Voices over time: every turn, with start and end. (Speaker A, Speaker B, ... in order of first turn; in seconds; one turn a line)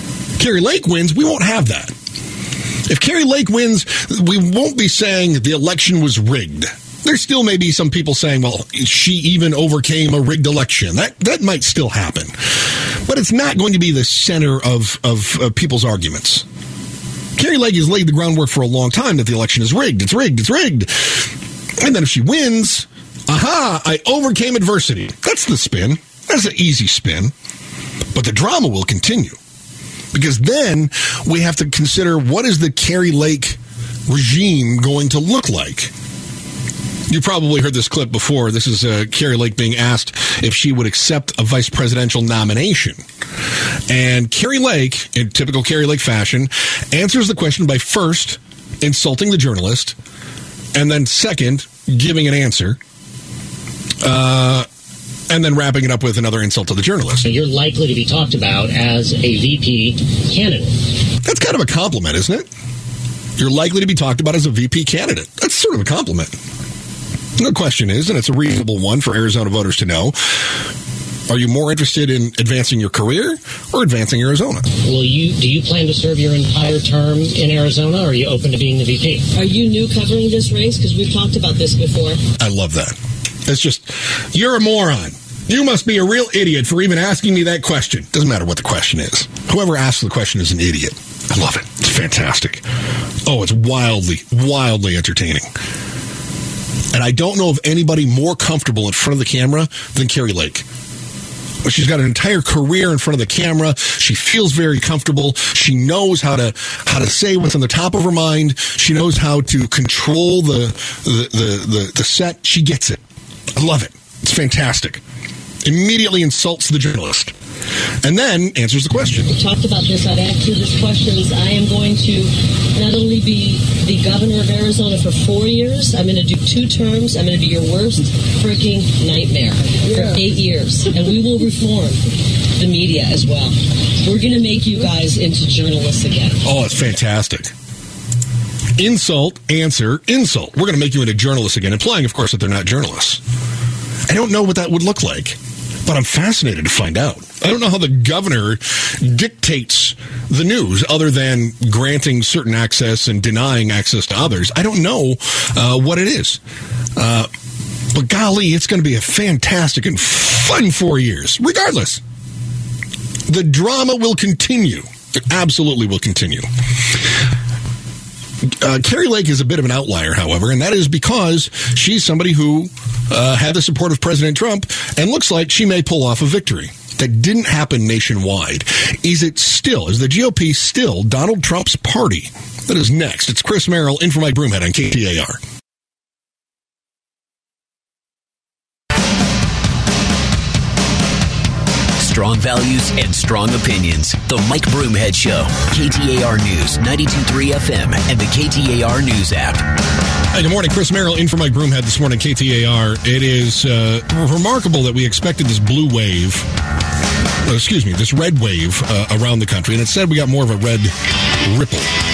Speaker A: 0.4-1.9
Speaker A: 2.9-16.4
Speaker A: 17.4-27.3
Speaker A: 28.1-29.4
Speaker A: 30.1-35.9
Speaker A: 37.1-43.0
Speaker A: 43.9-50.0
Speaker A: 50.7-52.8
Speaker A: 54.0-54.6
Speaker A: 55.3-57.3
Speaker B: 57.2-60.7
Speaker A: 61.2-62.5
Speaker A: 63.4-66.3
Speaker A: 67.4-70.5
Speaker A: 71.3-74.7
Speaker B: 74.8-79.2
Speaker C: 79.3-82.2
Speaker A: 82.4-83.0
Speaker A: 83.5-92.6
Speaker A: 93.2-95.5
Speaker A: 96.9-100.7
Speaker A: 101.6-113.0
Speaker A: 113.5-115.0
Speaker A: 115.6-117.3
Speaker A: 118.0-119.3
Speaker C: 119.3-136.4
Speaker A: 136.4-137.5
Speaker A: 138.8-143.2
Speaker A: 144.1-156.4
Speaker A: 156.9-157.3
Speaker A: 157.9-162.0
Speaker A: 163.3-166.5
Speaker A: 168.6-185.4
Speaker D: 192.0-199.6
Speaker A: 200.3-206.5
Speaker A: 207.4-211.9